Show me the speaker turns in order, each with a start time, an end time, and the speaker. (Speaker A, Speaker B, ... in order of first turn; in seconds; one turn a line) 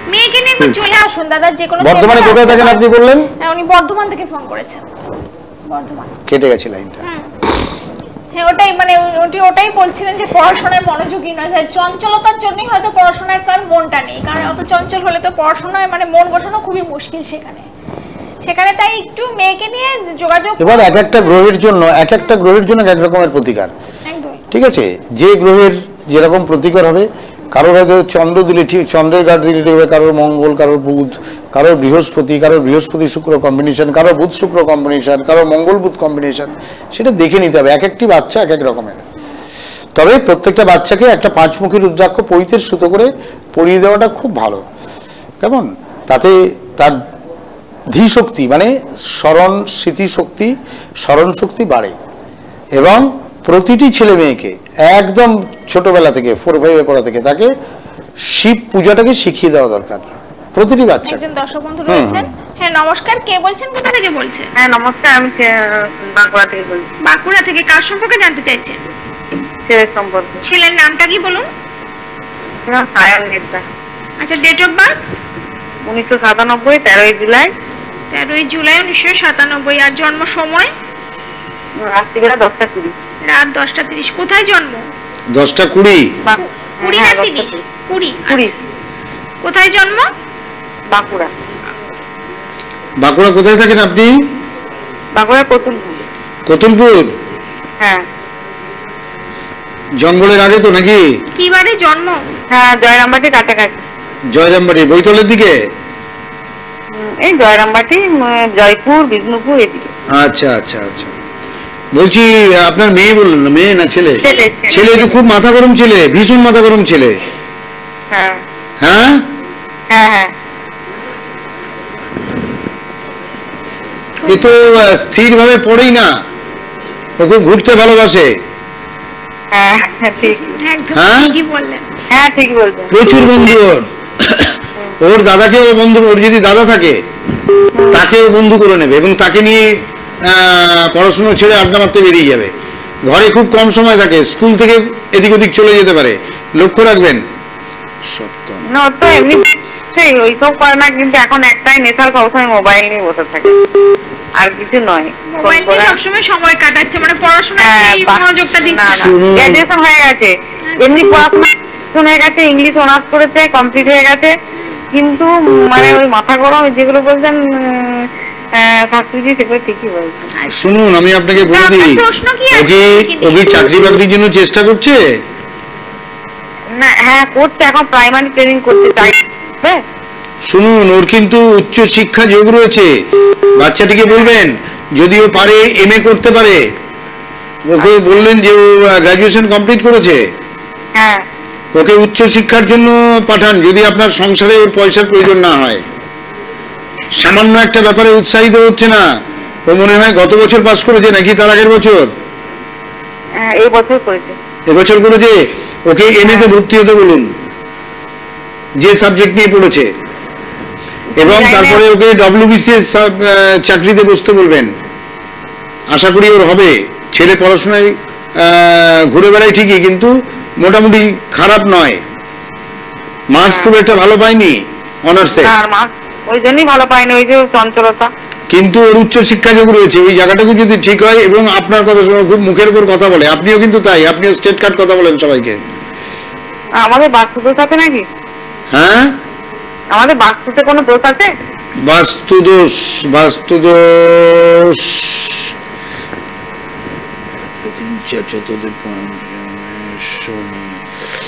Speaker A: 0.1-2.8
Speaker B: 1.8-3.3
Speaker A: 3.4-4.8
Speaker A: 5.7-6.1
Speaker B: 6.3-7.0
Speaker A: 8.3-17.7
Speaker A: 18.4-21.3
Speaker B: 20.6-23.7
Speaker A: 24.1-24.4
Speaker B: 24.5-39.0
Speaker B: 40.0-44.6
Speaker B: 45.4-47.0
Speaker B: 47.9-52.0
Speaker B: 52.8-57.5
Speaker B: 58.3-61.2
Speaker A: 61.0-64.5
Speaker B: 61.9-62.3
Speaker C: 64.6-66.9
Speaker A: 67.0-68.8
Speaker C: 69.7-70.4
Speaker A: 70.4-71.5
Speaker C: 72.7-73.6
Speaker A: 74.2-75.0
Speaker C: 75.9-77.5
Speaker A: 78.1-80.7
Speaker C: 81.8-82.9
Speaker A: 83.2-84.8
Speaker B: 85.3-86.1
Speaker C: 86.2-87.7
Speaker A: 86.4-88.5
Speaker C: 88.3-88.5
Speaker A: 89.4-90.1
Speaker C: 90.9-91.3
Speaker B: 93.0-94.1
Speaker C: 95.2-95.9
Speaker B: 96.5-97.2
Speaker C: 97.8-98.0
Speaker B: 100.0-101.0
Speaker A: 101.4-102.2
Speaker C: 102.5-103.8
Speaker B: 104.3-105.5
Speaker C: 106.9-109.9
Speaker B: 110.1-111.1
Speaker B: 112.0-117.2
Speaker C: 114.2-115.1
Speaker A: 114.2-114.8
Speaker C: 118.1-118.4
Speaker B: 118.8-119.2
Speaker C: 119.9-120.3
Speaker B: 124.3-126.1
Speaker B: 127.2-128.3
Speaker C: 129.5-130.6
Speaker A: 130.3-131.8
Speaker B: 130.9-131.4
Speaker C: 132.1-132.9
Speaker B: 132.9-137.0
Speaker C: 137.8-138.0
Speaker B: 137.9-139.7
Speaker B: 140.2-142.5
Speaker B: 143.1-147.2
Speaker B: 148.1-148.6
Speaker C: 148.7-153.6
Speaker C: 154.4-156.0
Speaker A: 155.3-159.1
Speaker C: 157.6-164.3
Speaker B: 158.9-159.6
Speaker A: 160.7-161.2
Speaker C: 164.9-170.3
Speaker B: 170.5-172.0
Speaker A: 171.4-173.8
Speaker B: 172.5-175.0
Speaker C: 176.8-179.8
Speaker B: 180.5-182.9
Speaker B: 183.6-186.6
Speaker B: 187.7-190.2
Speaker C: 191.0-191.2
Speaker B: 191.8-195.8
Speaker B: 197.2-199.0
Speaker B: 199.7-202.1
Speaker C: 203.4-204.4
Speaker B: 204.7-207.3
Speaker B: 208.8-209.9
Speaker C: 211.2-211.8
Speaker B: 211.2-214.7
Speaker B: 215.9-222.0
Speaker B: 223.3-225.5
Speaker C: 223.4-223.7
Speaker C: 225.4-228.1
Speaker B: 228.5-235.6
Speaker C: 236.8-238.1
Speaker B: 238.7-239.2
Speaker C: 239.9-241.3
Speaker B: 241.8-245.5
Speaker B: 247.6-250.8